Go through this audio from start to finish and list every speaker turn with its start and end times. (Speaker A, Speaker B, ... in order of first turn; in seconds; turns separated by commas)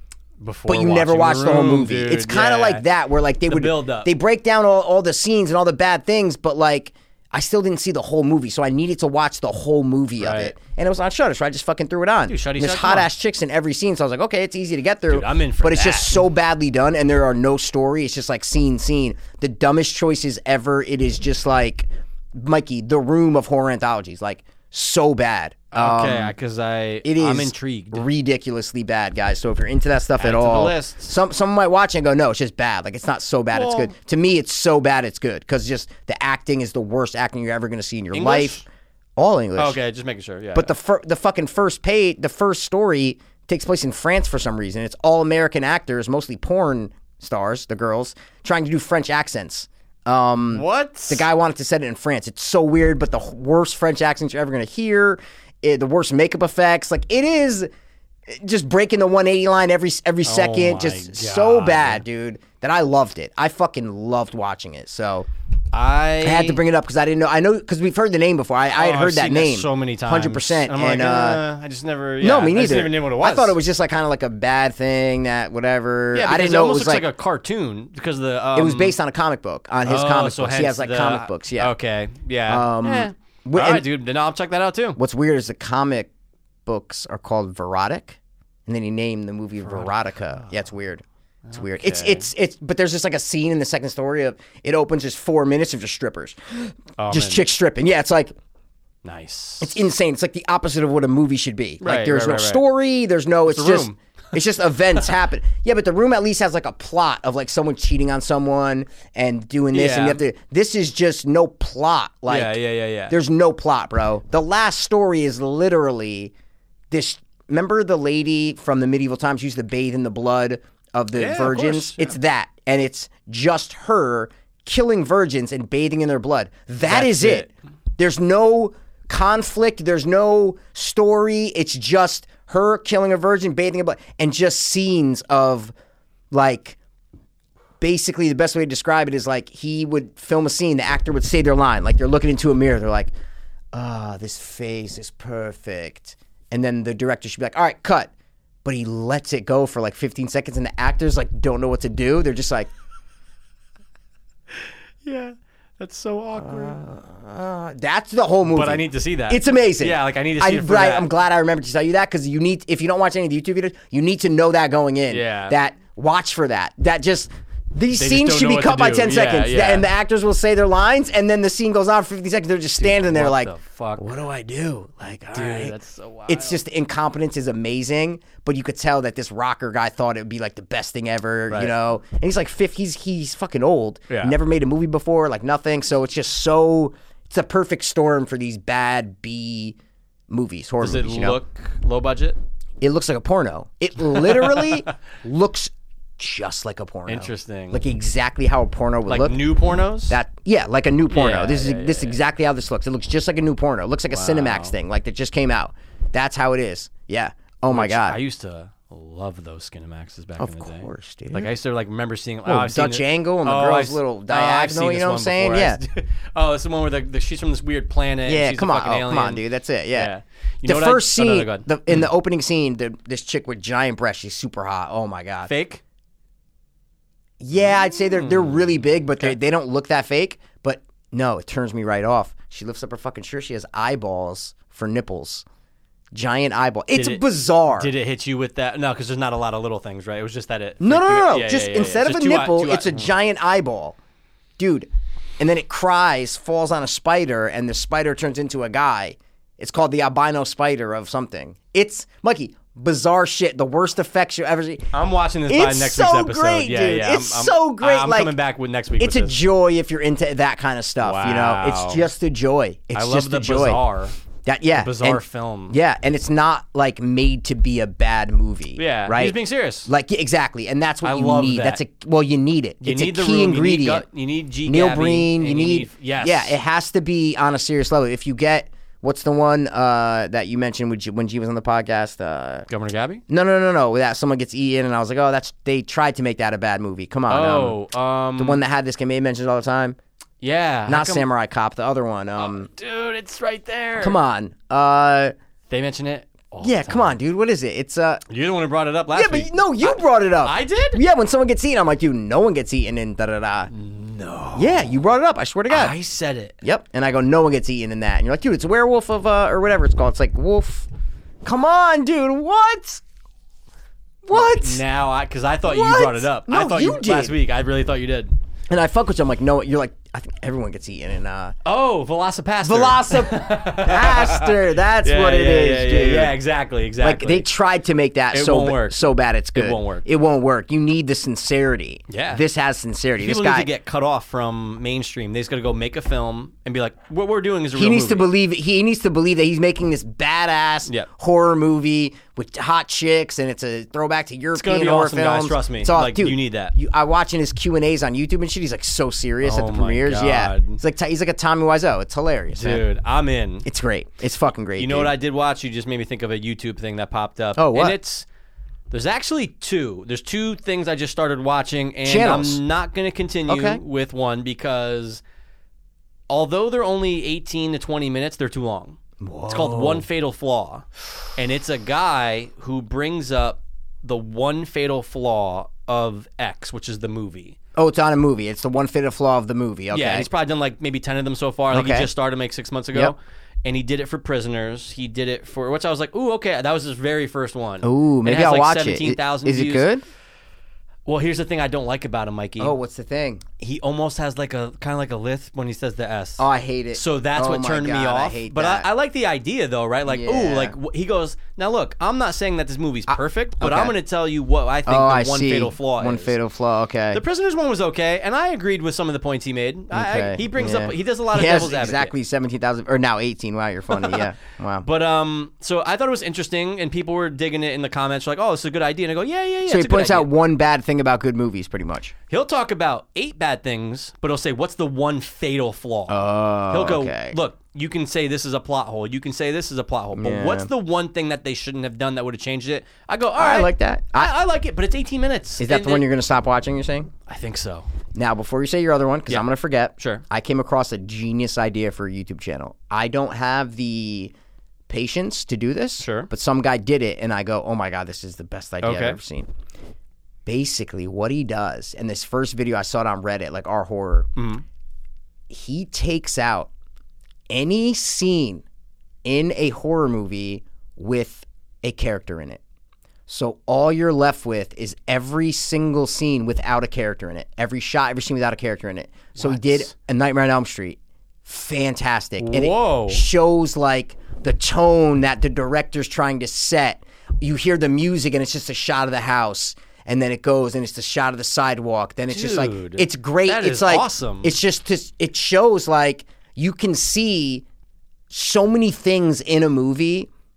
Speaker A: 0.4-2.8, Speaker B: 0.7-26.3, Speaker A: 3.5-4.1, Speaker A: 10.2-10.5, Speaker A: 12.3-13.1, Speaker A: 15.1-16.2, Speaker A: 25.7-28.1, Speaker B: 27.0-38.6, Speaker A: 30.2-31.1, Speaker A: 33.5-33.9, Speaker A: 38.1-38.6, Speaker B: 39.2-39.8, Speaker A: 39.5-40.7, Speaker B: 40.5-57.7, Speaker A: 50.5-51.2, Speaker B: 58.3-65.3, Speaker A: 60.2-62.0, Speaker A: 65.7-66.6, Speaker B: 66.2-71.4, Speaker A: 68.7-73.6, Speaker B: 72.2-77.1, Speaker A: 76.1-79.0, Speaker B: 78.5-81.7, Speaker A: 79.8-85.0, Speaker B: 82.5-83.8, Speaker B: 85.0-86.1, Speaker B: 86.7-91.0, Speaker A: 89.6-90.5, Speaker A: 91.5-92.3, Speaker B: 91.5-98.3, Speaker A: 97.0-97.5, Speaker A: 99.0-99.8, Speaker B: 99.6-112.6, Speaker A: 101.8-102.6, Speaker A: 103.5-104.0, Speaker A: 109.7-110.2, Speaker A: 112.3-113.1, Speaker B: 113.1-116.3, Speaker B: 116.9-135.7, Speaker A: 121.1-122.2, Speaker A: 126.9-127.5, Speaker B: 136.3-136.8, Speaker B: 137.8-143.1, Speaker B: 143.7-148.1, Speaker B: 148.6-152.7, Speaker A: 155.0-156.8, Speaker B: 156.4-175.8, Speaker A: 158.4-161.1, Speaker A: 165.1-165.6, Speaker A: 167.9-169.9, Speaker A: 172.8-174.1, Speaker A: 175.3-176.6, Speaker B: 176.3-189.8, Speaker A: 184.1-184.3, Speaker B: 190.3-191.4, Speaker A: 190.8-192.4, Speaker B: 192.8-199.4, Speaker A: 194.1-194.8, Speaker A: 197.1-197.8, Speaker A: 199.1-200.2, Speaker B: 200.1-208.2, Speaker A: 201.1-202.2, Speaker A: 204.1-204.7, Speaker A: 207.7-222.1, Speaker B: 210.4-211.5, Speaker B: 212.4-215.8, Speaker B: 218.2-220.1, Speaker B: 220.6-225.5, Speaker A: 225.4-225.8, Speaker B: 227.4-235.4, Speaker A: 228.2-228.6, Speaker B: 236.1-237.9, Speaker A: 236.9-243.1, Speaker B: 240.8-244.0, Speaker B: 244.6-254.9, Speaker A: 254.9-259.4, Speaker B: 255.5-258.4, Speaker B: 259.0-263.8, Speaker A: 261.0-262.1, Speaker A: 262.9-264.2, Speaker B: 264.4-274.1, Speaker A: 264.7-265.8, Speaker A: 268.8-269.9, Speaker A: 271.0-271.8, Speaker A: 272.8-276.6, Speaker B: 274.6-282.6, Speaker A: 282.7-283.2, Speaker B: 283.3-287.8, Speaker A: 287.3-288.6, Speaker B: 288.4-290.0, Speaker A: 290.4-291.3, Speaker B: 290.9-292.7, Speaker A: 292.4-294.2, Speaker B: 294.0-295.3, Speaker A: 295.7-297.2, Speaker B: 296.6-298.2, Speaker A: 298.3-301.0, Speaker B: 299.1-303.7, Speaker A: 303.7-305.0, Speaker B: 304.6-305.9, Speaker A: 305.7-306.6, Speaker B: 306.6-310.9, Speaker B: 311.4-313.0, Speaker B: 314.2-314.8, Speaker A: 314.3-318.3, Speaker B: 315.6-317.4, Speaker B: 318.7-321.5, Speaker A: 321.6-327.4, Speaker B: 322.6-326.4, Speaker B: 327.0-333.7, Speaker A: 328.3-330.1, Speaker A: 332.1-332.4, Speaker A: 333.2-338.3, Speaker B: 337.7-352.8, Speaker A: 344.5-346.7, Speaker A: 349.4-350.8, Speaker A: 352.5-353.7, Speaker B: 353.6-355.1, Speaker A: 354.8-358.2, Speaker B: 357.6-357.9, Speaker A: 358.9-365.2, Speaker B: 362.0-362.6, Speaker B: 363.5-363.8, Speaker A: 366.3-377.6, Speaker B: 369.2-370.1, Speaker B: 377.8-380.3, Speaker A: 379.9-389.9, Speaker B: 381.7-382.1, Speaker B: 387.8-390.0, Speaker A: 391.1-392.7, Speaker B: 392.6-393.4, Speaker A: 393.6-406.4, Speaker B: 396.4-398.9, Speaker B: 400.1-400.8, Speaker B: 403.1-403.9, Speaker B: 404.9-407.2, Speaker A: 407.1-412.1, Speaker B: 409.9-414.9, Speaker A: 413.9-414.2, Speaker A: 414.8-420.3, Speaker B: 419.7-422.1, Speaker A: 422.3-436.1, Speaker B: 426.1-427.4, Speaker B: 430.1-430.7, Speaker B: 433.4-434.3, Speaker B: 435.6-437.1, Speaker A: 437.2-437.9, Speaker B: 438.1-444.3, Speaker A: 440.0-440.2, Speaker B: 444.9-449.5, Speaker A: 446.0-446.3, Speaker A: 448.8-449.2, Speaker B: 450.4-454.3, Speaker A: 454.4-454.6, Speaker B: 455.5-456.7, Speaker B: 457.5-458.6, Speaker B: 459.2-462.6, Speaker B: 463.3-487.6, Speaker A: 469.3-469.9, Speaker A: 472.4-473.3, Speaker A: 482.3-484.6, Speaker B: 488.3-490.3